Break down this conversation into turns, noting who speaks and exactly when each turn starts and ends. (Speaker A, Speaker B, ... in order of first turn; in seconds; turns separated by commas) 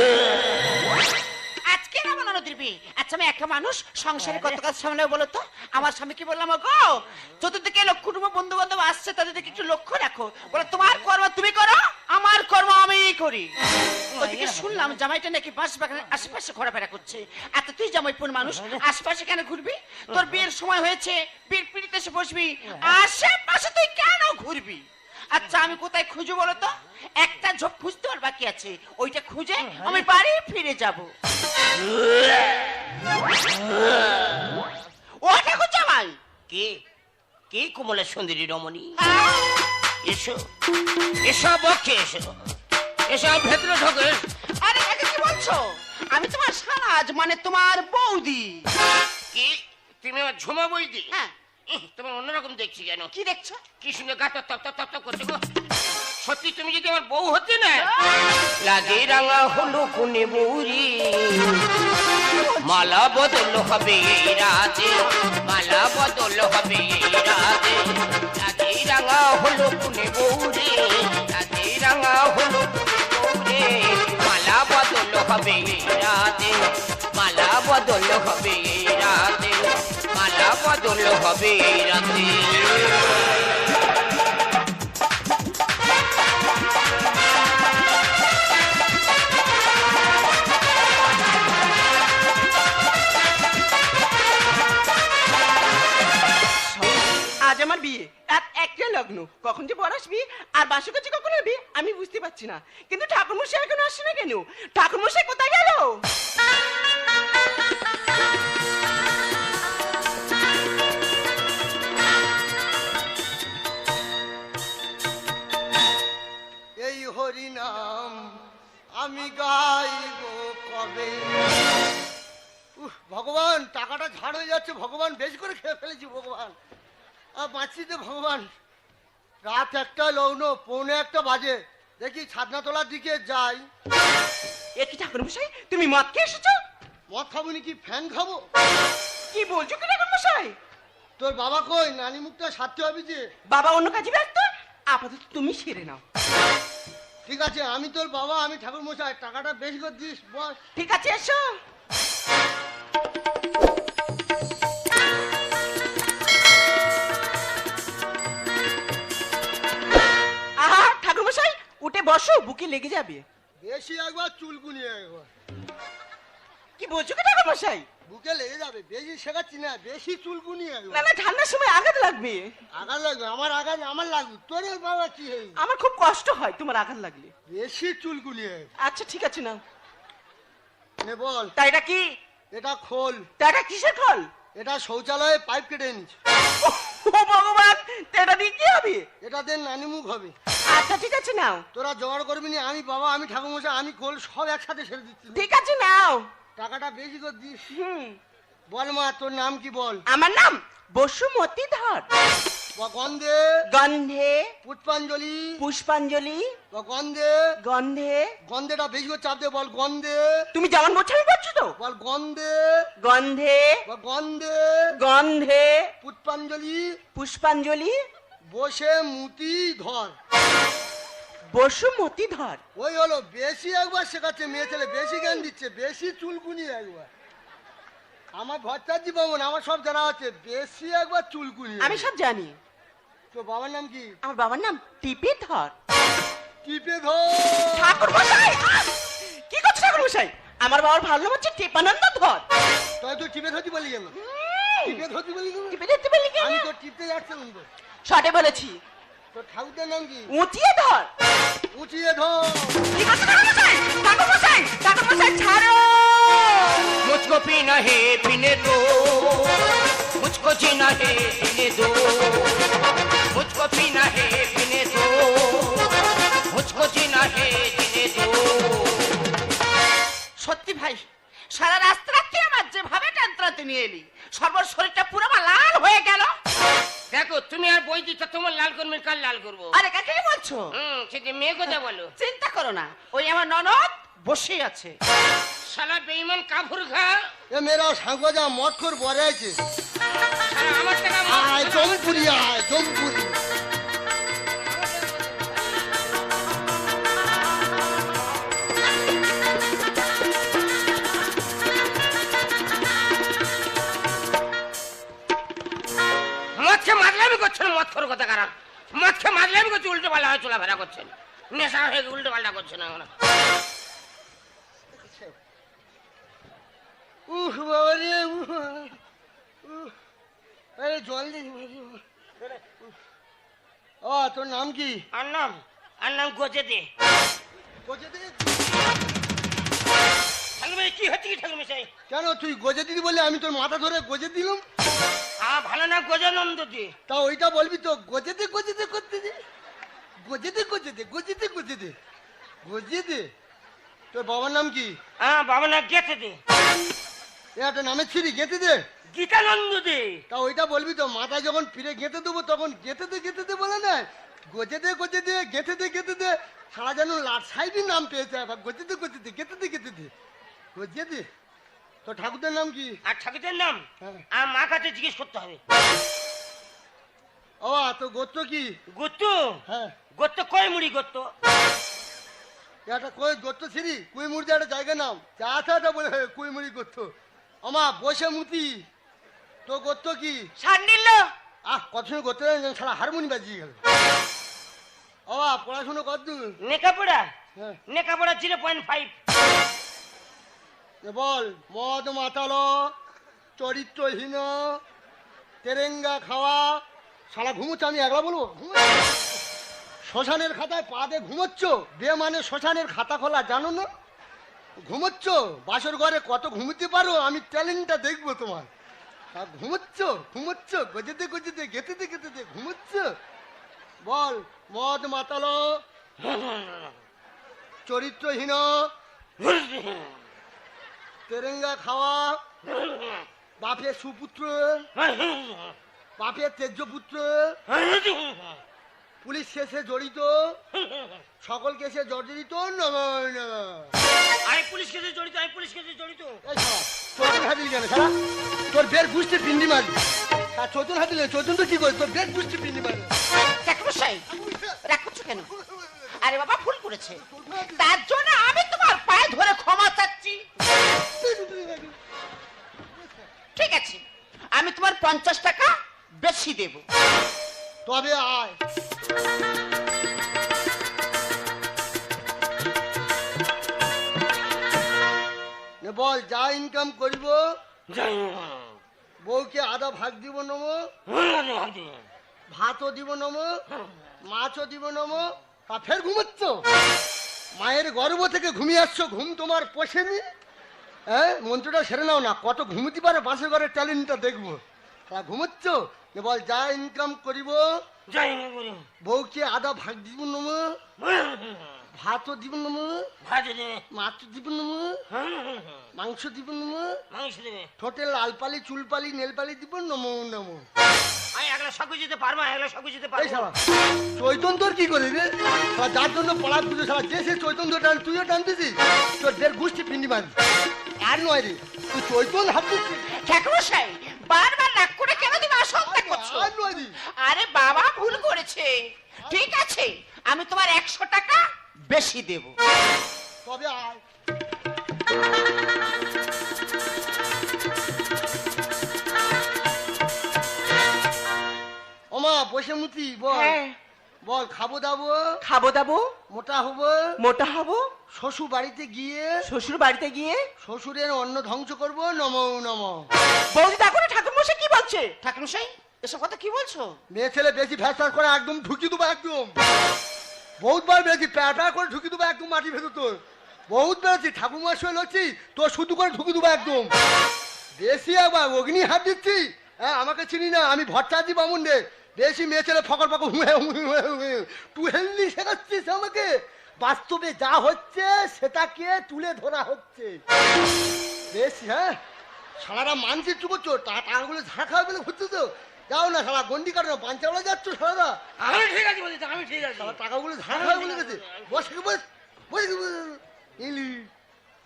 Speaker A: 1.7-13.5, Speaker B: 4.2-4.6, Speaker B: 14.1-15.0, Speaker A: 14.2-31.1, Speaker B: 18.4-18.8, Speaker B: 20.1-20.5, Speaker B: 29.6-30.1, Speaker B: 32.1-32.5, Speaker A: 35.2-36.2, Speaker B: 36.5-36.8, Speaker B: 37.5-38.9, Speaker A: 39.0-39.6, Speaker B: 40.0-40.5, Speaker B: 41.2-42.5, Speaker B: 43.1-44.2, Speaker A: 44.6-48.7, Speaker B: 49.3-51.1, Speaker B: 51.7-53.1, Speaker A: 53.1-53.6, Speaker B: 53.8-55.4, Speaker B: 56.2-57.9, Speaker B: 58.5-61.7, Speaker A: 62.3-62.8, Speaker B: 62.6-83.1, Speaker C: 96.7-106.0, Speaker D: 116.8-118.4, Speaker D: 119.0-121.4, Speaker D: 122.8-126.5, Speaker D: 127.4-128.5, Speaker D: 129.4-133.6, Speaker C: 134.8-136.6, Speaker D: 137.1-138.4, Speaker C: 139.3-140.6, Speaker D: 141.2-143.2, Speaker C: 143.5-146.0, Speaker D: 147.3-150.6, Speaker C: 150.8-151.6, Speaker C: 160.6-163.2, Speaker D: 163.6-165.3, Speaker C: 166.8-167.9, Speaker D: 168.1-171.1, Speaker C: 170.9-172.5, Speaker D: 172.7-175.6, Speaker C: 175.6-177.3, Speaker D: 177.5-178.7, Speaker C: 178.8-179.6, Speaker D: 181.0-181.6, Speaker C: 181.6-182.1, Speaker D: 182.5-183.3, Speaker C: 183.4-184.3, Speaker D: 184.6-186.2, Speaker C: 186.6-189.1, Speaker D: 189.2-190.3, Speaker C: 190.7-191.7, Speaker D: 191.7-195.4, Speaker C: 195.3-196.3, Speaker D: 196.6-197.8, Speaker C: 197.7-198.2, Speaker D: 198.7-200.0, Speaker C: 200.1-202.1, Speaker D: 202.8-203.5, Speaker C: 203.7-204.5, Speaker D: 204.6-205.6, Speaker C: 205.6-206.6, Speaker D: 206.7-207.5, Speaker C: 207.6-208.3, Speaker D: 208.4-210.5, Speaker C: 210.5-211.8, Speaker D: 211.8-212.9, Speaker C: 213.0-213.8, Speaker D: 213.9-214.9, Speaker C: 215.0-215.9, Speaker D: 216.0-217.0, Speaker C: 217.2-218.0, Speaker D: 218.4-220.2, Speaker C: 221.5-222.6, Speaker D: 222.8-227.1, Speaker D: 228.3-232.1, Speaker C: 231.8-232.6, Speaker D: 233.3-234.1, Speaker C: 234.2-235.7, Speaker D: 236.6-238.2, Speaker C: 237.7-242.4, Speaker D: 243.0-244.1, Speaker C: 244.1-245.0, Speaker D: 244.8-245.8, Speaker C: 245.7-246.7, Speaker D: 246.4-247.7, Speaker C: 248.1-248.8, Speaker D: 249.3-250.3, Speaker C: 250.3-251.1, Speaker D: 251.7-252.9, Speaker C: 252.9-256.9, Speaker B: 257.0-262.8, Speaker B: 263.3-269.2, Speaker A: 270.4-276.3, Speaker B: 277.1-279.8, Speaker A: 279.7-280.7, Speaker B: 280.7-282.1, Speaker A: 282.2-284.9, Speaker B: 285.7-287.3, Speaker D: 287.5-289.6, Speaker B: 290.3-292.4, Speaker D: 291.3-293.4, Speaker B: 294.6-295.8, Speaker B: 306.6-313.1, Speaker D: 315.0-315.3, Speaker D: 317.3-319.0, Speaker D: 319.6-319.9, Speaker D: 320.8-322.0, Speaker D: 324.0-325.0, Speaker B: 325.1-326.9, Speaker D: 327.9-328.8, Speaker B: 330.6-331.9, Speaker D: 332.1-334.6, Speaker B: 335.4-336.9, Speaker D: 337.1-339.3, Speaker D: 340.2-341.9, Speaker D: 342.6-343.3, Speaker D: 344.1-344.9, Speaker B: 345.2-346.4, Speaker D: 347.6-348.8, Speaker B: 349.1-350.2, Speaker D: 350.3-360.1, Speaker D: 360.8-361.3, Speaker D: 362.1-363.0, Speaker B: 363.1-365.6, Speaker D: 367.6-368.7, Speaker B: 368.9-369.6, Speaker D: 369.7-370.0, Speaker B: 370.1-371.3, Speaker D: 372.9-378.9, Speaker D: 379.7-380.5, Speaker C: 380.6-381.3, Speaker D: 381.7-383.8, Speaker D: 385.3-386.6, Speaker B: 386.6-387.3, Speaker B: 387.9-389.1, Speaker D: 391.0-392.9, Speaker D: 393.6-394.8, Speaker D: 395.6-399.2, Speaker D: 400.1-403.9, Speaker D: 404.9-408.7, Speaker D: 409.4-413.1, Speaker D: 414.0-415.8, Speaker B: 416.3-416.8, Speaker D: 417.9-418.9, Speaker B: 419.4-420.1, Speaker D: 421.3-422.4, Speaker D: 423.6-424.9, Speaker B: 425.0-425.7, Speaker D: 426.2-427.6, Speaker B: 427.7-428.6, Speaker D: 429.2-430.6, Speaker D: 431.4-433.9, Speaker B: 434.5-436.4, Speaker D: 436.4-438.1, Speaker D: 438.7-440.0, Speaker D: 440.5-443.1, Speaker A: 443.6-444.3, Speaker D: 444.3-444.8, Speaker A: 444.9-445.5, Speaker D: 445.5-446.2, Speaker A: 446.2-450.4, Speaker D: 447.1-448.0, Speaker D: 451.1-452.0, Speaker D: 453.0-453.2, Speaker A: 453.6-454.0, Speaker A: 454.6-456.9, Speaker D: 457.9-458.6, Speaker D: 465.8-467.4, Speaker B: 467.9-468.7, Speaker D: 469.2-470.8, Speaker B: 471.1-472.0, Speaker D: 472.5-473.6, Speaker D: 474.2-476.6, Speaker D: 477.6-480.2, Speaker D: 481.1-487.8, Speaker B: 488.1-488.9, Speaker D: 489.0-490.8, Speaker B: 491.0-491.8, Speaker D: 491.9-493.1, Speaker B: 493.2-493.8, Speaker D: 493.9-495.0, Speaker B: 495.1-495.9, Speaker D: 495.9-497.0, Speaker B: 497.1-497.7, Speaker D: 497.8-500.7, Speaker B: 501.4-503.5, Speaker D: 503.2-503.6, Speaker D: 504.2-510.4, Speaker D: 511.0-513.1, Speaker A: 513.1-516.5, Speaker D: 515.8-517.0, Speaker A: 517.2-522.5, Speaker D: 519.2-519.5, Speaker D: 523.4-524.0, Speaker D: 532.1-533.6, Speaker C: 533.3-533.8, Speaker D: 534.2-535.3, Speaker C: 535.4-536.1, Speaker D: 536.3-537.1, Speaker C: 537.2-537.9, Speaker D: 538.1-539.5, Speaker C: 539.5-540.4, Speaker D: 540.6-543.1, Speaker C: 543.5-545.2, Speaker A: 545.2-547.0, Speaker D: 547.1-549.6, Speaker D: 550.6-556.9, Speaker D: 557.8-570.2, Speaker D: 571.3-572.0, Speaker D: 572.6-578.2, Speaker B: 578.4-580.0, Speaker D: 579.7-584.1, Speaker B: 580.5-581.6